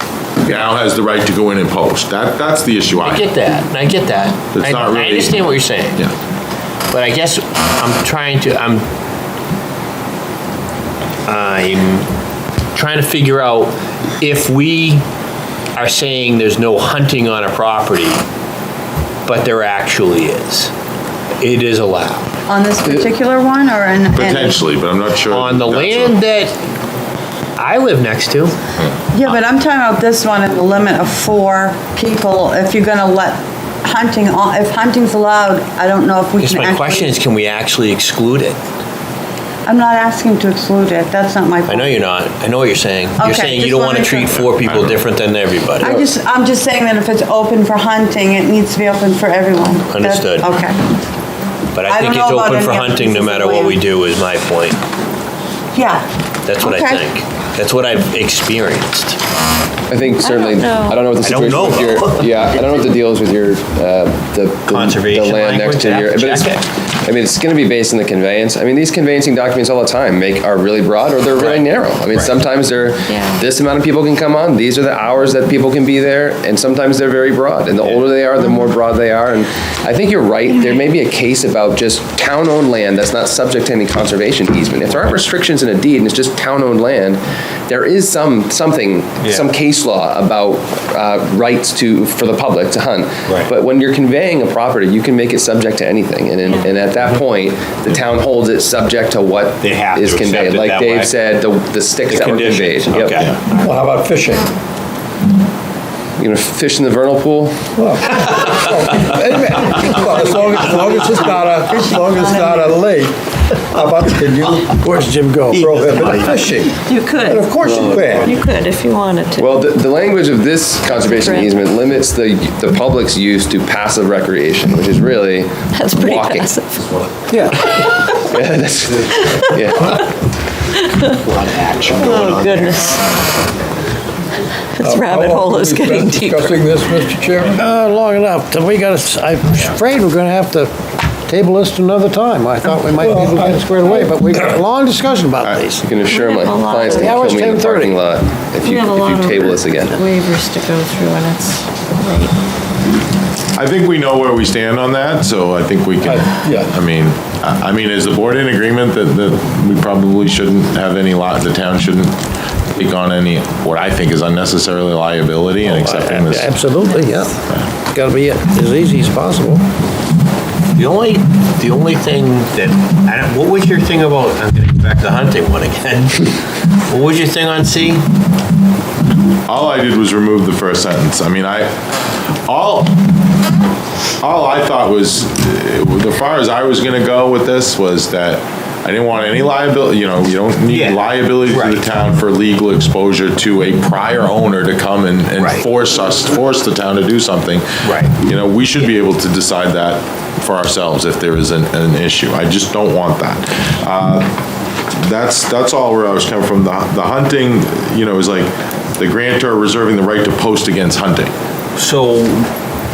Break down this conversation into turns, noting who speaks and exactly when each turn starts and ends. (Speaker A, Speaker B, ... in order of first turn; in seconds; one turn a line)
Speaker A: 0.4-3.3
Speaker B: 3.0-6.1
Speaker A: 4.5-6.1
Speaker B: 6.9-8.9
Speaker B: 11.3-12.1
Speaker B: 12.7-15.1
Speaker B: 15.8-18.2
Speaker B: 19.3-20.7
Speaker B: 21.4-22.3
Speaker C: 22.5-24.7
Speaker A: 24.1-26.2
Speaker B: 25.3-26.6
Speaker B: 27.6-28.6
Speaker C: 29.1-37.2
Speaker B: 36.4-38.6
Speaker C: 39.7-42.1
Speaker B: 41.6-46.0
Speaker C: 43.2-44.5
Speaker A: 44.5-45.0
Speaker C: 45.8-50.8
Speaker B: 49.8-50.5
Speaker B: 51.7-54.8
Speaker C: 51.8-53.9
Speaker C: 55.8-56.1
Speaker B: 56.5-59.2
Speaker C: 56.6-57.1
Speaker D: 59.9-103.2
Speaker E: 60.2-61.0
Speaker B: 61.2-62.9
Speaker B: 64.7-66.7
Speaker B: 71.4-72.4
Speaker E: 73.1-73.4
Speaker B: 89.2-89.5
Speaker B: 99.6-101.2
Speaker B: 102.1-103.7
Speaker F: 103.5-104.5
Speaker D: 106.2-107.6
Speaker F: 107.8-113.2
Speaker C: 110.5-112.9
Speaker F: 113.7-114.9
Speaker G: 114.8-116.2
Speaker F: 115.5-118.3
Speaker B: 115.5-116.4
Speaker C: 116.9-117.3
Speaker E: 116.9-117.3
Speaker G: 117.5-118.3
Speaker D: 117.7-118.0
Speaker E: 118.2-119.5
Speaker D: 119.4-126.5
Speaker E: 120.9-121.6
Speaker E: 125.7-126.9
Speaker F: 127.3-127.7
Speaker E: 127.8-128.1
Speaker D: 128.1-130.1
Speaker E: 130.8-131.2
Speaker B: 131.2-132.8
Speaker E: 131.9-133.1
Speaker E: 134.8-136.6
Speaker F: 134.8-137.6
Speaker G: 137.5-140.7
Speaker G: 141.3-145.9
Speaker F: 142.9-144.2
Speaker D: 145.8-150.0
Speaker E: 146.1-147.3
Speaker G: 146.9-148.0
Speaker E: 148.6-152.3
Speaker A: 153.6-162.2
Speaker F: 156.0-156.8
Speaker A: 162.8-166.6
Speaker G: 165.7-167.4
Speaker G: 167.9-169.6
Speaker B: 170.8-178.0
Speaker A: 179.5-181.8
Speaker A: 182.5-182.9
Speaker A: 184.2-204.3
Speaker B: 190.7-191.8
Speaker B: 195.4-195.7
Speaker B: 197.8-198.1
Speaker A: 205.0-211.3
Speaker B: 211.8-212.5